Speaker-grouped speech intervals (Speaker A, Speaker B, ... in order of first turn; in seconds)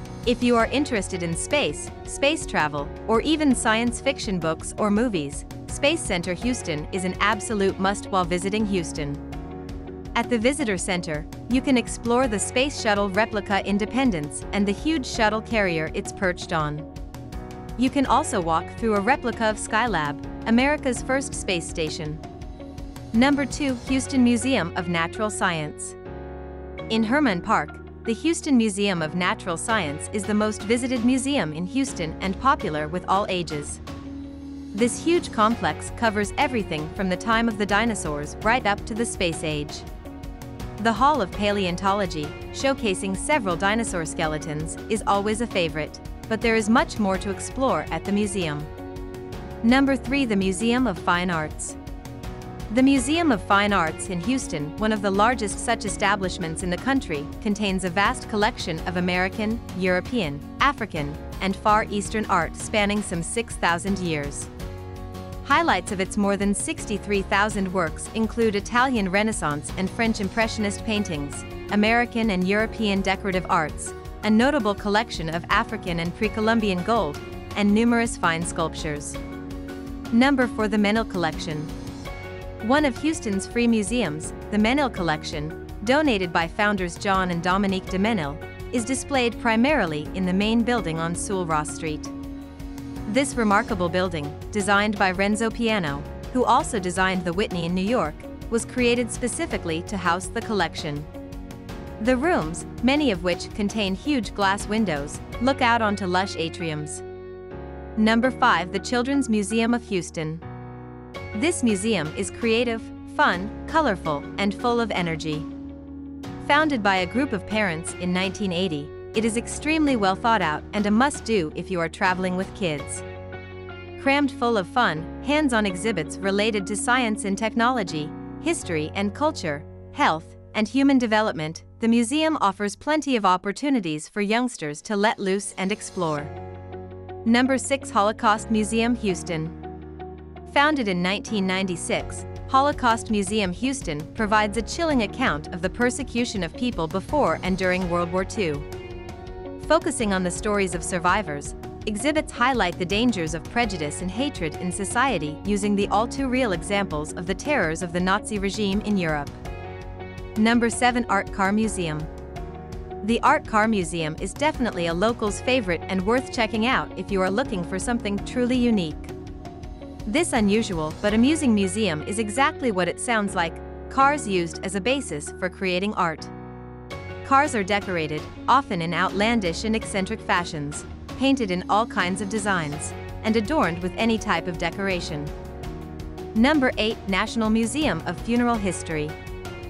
Speaker A: 0.2-9.2, 10.1-16.9, 17.8-22.2, 23.1-26.0, 26.9-33.8, 34.7-39.9, 40.8-48.7, 49.6-51.8, 52.7-64.5, 65.4-79.2, 80.1-81.7, 82.6-92.1, 93.0-101.1, 102.0-107.0, 108.0-110.4, 111.3-115.5, 116.4-123.0, 124.0-136.3, 137.2-139.6, 140.4-148.7, 149.6-159.4, 160.3-162.1, 163.0-169.1, 170.1-176.3, 177.2-185.3, 186.3-189.2